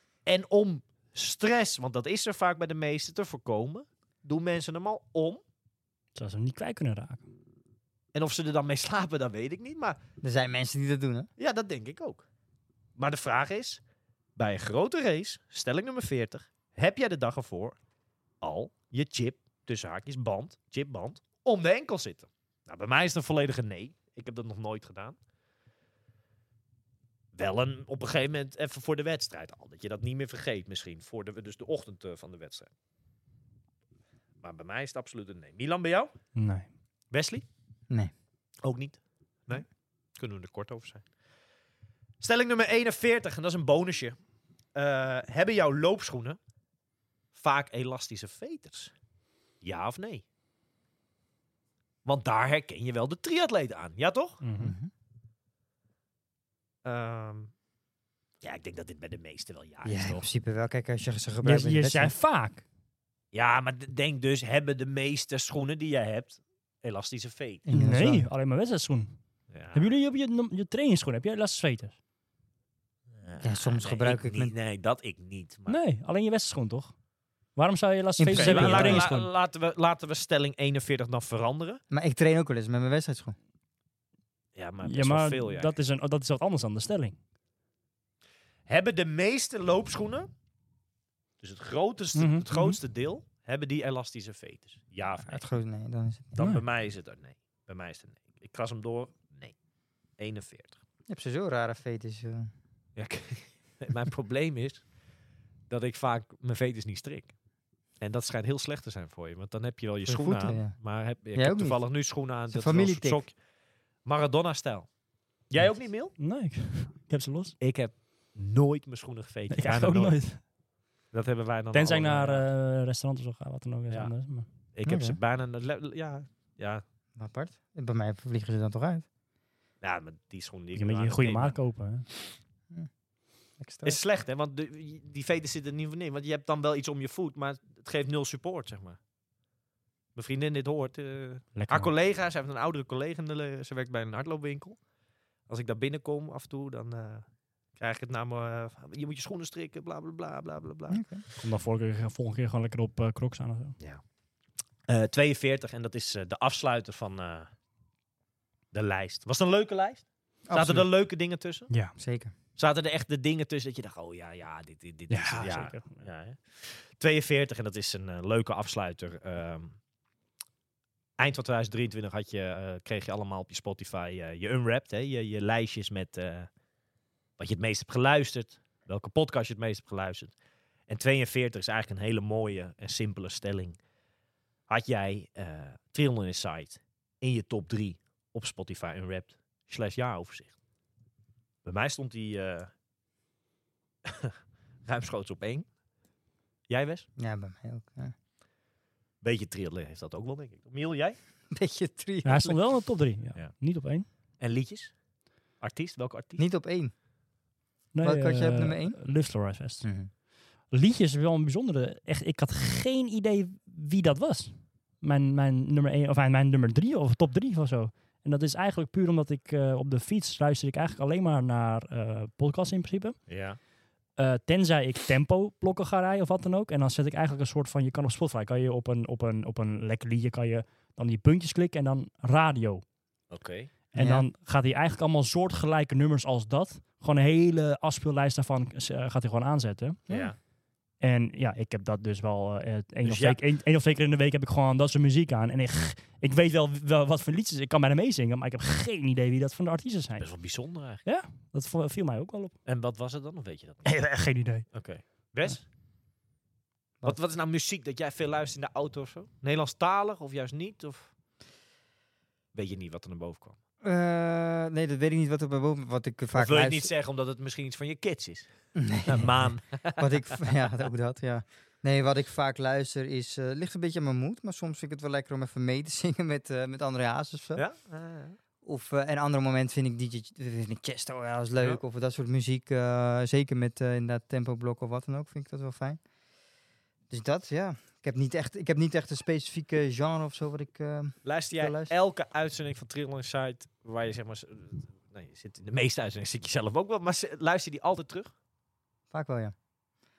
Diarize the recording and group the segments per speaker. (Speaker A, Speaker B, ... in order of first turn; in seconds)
Speaker A: 0.3-5.4, 8.1-10.0, 11.4-12.2, 13.0-13.8, 14.4-17.8, 18.4-25.2, 27.4-32.7, 34.4-36.1, 37.1-37.5, 38.6-41.0, 42.2-44.2, 44.8-46.4, 47.3-48.9, 49.6-50.2, 52.0-54.4, 56.8-57.5, 58.4-60.2, 63.3-67.7, 69.5-69.9, 73.2-75.8, 78.3-81.8, 84.5-85.8, 88.7-90.3, 91.4-95.4, 96.3-99.6, 100.2-100.8, 103.0-104.8, 105.7-107.3, 108.0-113.4, 114.0-114.9, 115.5-116.2, 117.6-120.2, 121.1-122.5, 124.7-126.8, 129.8-131.6, 133.8-139.0, 140.2-144.8, 145.5-151.0, 154.9-157.5, 158.7-161.7, 162.6-169.8, 171.2-176.5, 177.4-180.3, 180.9-183.8, 184.7-190.5, 191.7-192.7, 194.1-195.7, 196.7-197.1, 199.2-201.2, 204.4-204.9, 205.6-206.4, 223.3-223.6, 233.3-233.7, 240.1-240.4, 243.0-243.4, 250.2-251.0, 252.7-253.9, 254.7-255.7, 257.1-261.1, 262.5-263.6, 266.3-268.5, 269.0-270.3, 277.6-278.4, 291.2-298.3
Speaker B: 6.2-7.3, 36.4-36.7, 54.4-54.8, 61.4-62.6, 67.7-69.2, 69.7-72.0, 75.7-76.9, 77.6-79.3, 84.8-87.2, 92.2-92.8, 96.4-96.6, 116.2-117.6, 119.5-120.4, 121.7-124.5, 130.8-132.1, 141.6-141.9, 151.4-153.8, 161.7-162.0, 165.1-166.0, 202.2-204.1, 207.9-209.9, 210.7-223.3, 224.2-232.8, 233.9-240.0, 241.0-250.4, 251.0-252.6, 253.8-254.8
Speaker C: 10.2-11.3, 54.6-54.9, 59.9-62.1, 67.7-68.3, 73.4-74.5, 78.2-79.1, 81.9-83.4, 95.2-96.3, 101.1-102.5, 110.1-110.8, 111.3-111.9, 112.5-113.3, 124.8-125.2, 127.2-129.1, 133.6-134.0, 150.9-151.2, 160.5-160.9, 162.0-162.3, 197.2-198.1, 201.5-202.6, 206.4-206.9, 208.0-209.0, 209.8-210.1, 233.9-234.3, 263.8-266.9, 268.8-277.6, 278.6-286.0, 287.1-291.9, 299.1-299.6